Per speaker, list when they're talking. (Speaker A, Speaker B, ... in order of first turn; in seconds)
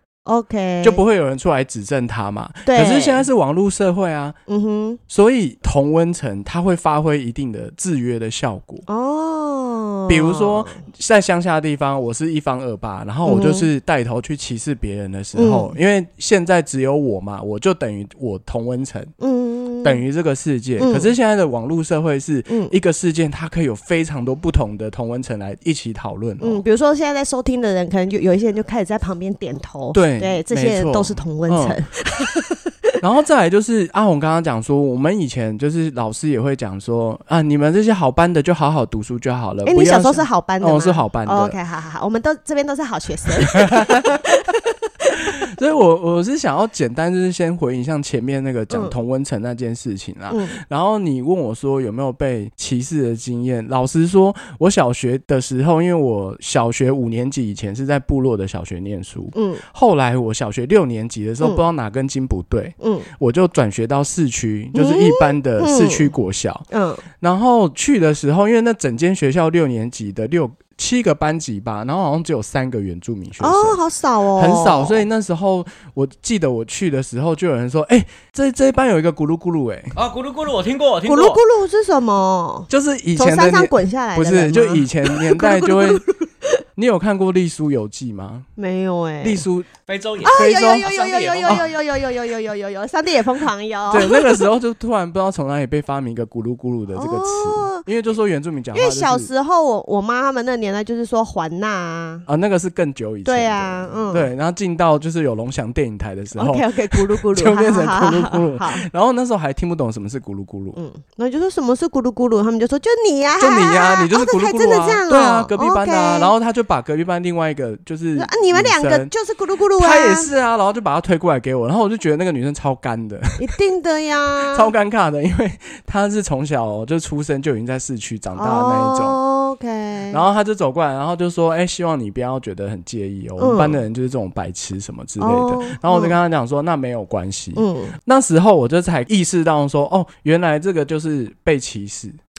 Speaker A: 0.2-1.0, 2.6-3.3, 4.5-5.0, 8.9-10.8, 13.2-13.7, 15.3-15.7, 19.2-20.0, 20.8-21.1, 22.5-22.7, 26.4-32.9, 39.6-45.3, 50.3-50.6, 59.3-59.6, 62.8-63.1, 64.7-66.1, 66.7-67.0, 73.4-75.0, 81.0-86.2, 88.6-89.4, 90.2-94.4, 96.9-97.9, 98.7-102.2, 103.2-104.3, 106.3-108.8, 110.8-116.3, 118.1-120.3, 123.4-124.7, 128.4-130.2, 133.4-133.8, 135.2-136.1, 137.6-137.9
Speaker B: 0.8-4.3, 5.1-8.8, 10.1-19.1, 19.8-26.6, 29.9-31.8, 33.0-41.6, 43.6-44.1, 45.2-66.6, 67.2-73.8, 74.4-79.9, 82.7-86.0, 86.8-88.5, 89.2-89.7, 90.2-90.9, 93.9-99.3, 102.3-110.8, 113.4-119.1, 119.8-123.5, 124.5-129.2, 130.1-142.2
Speaker C: 79.9-81.4, 89.8-91.7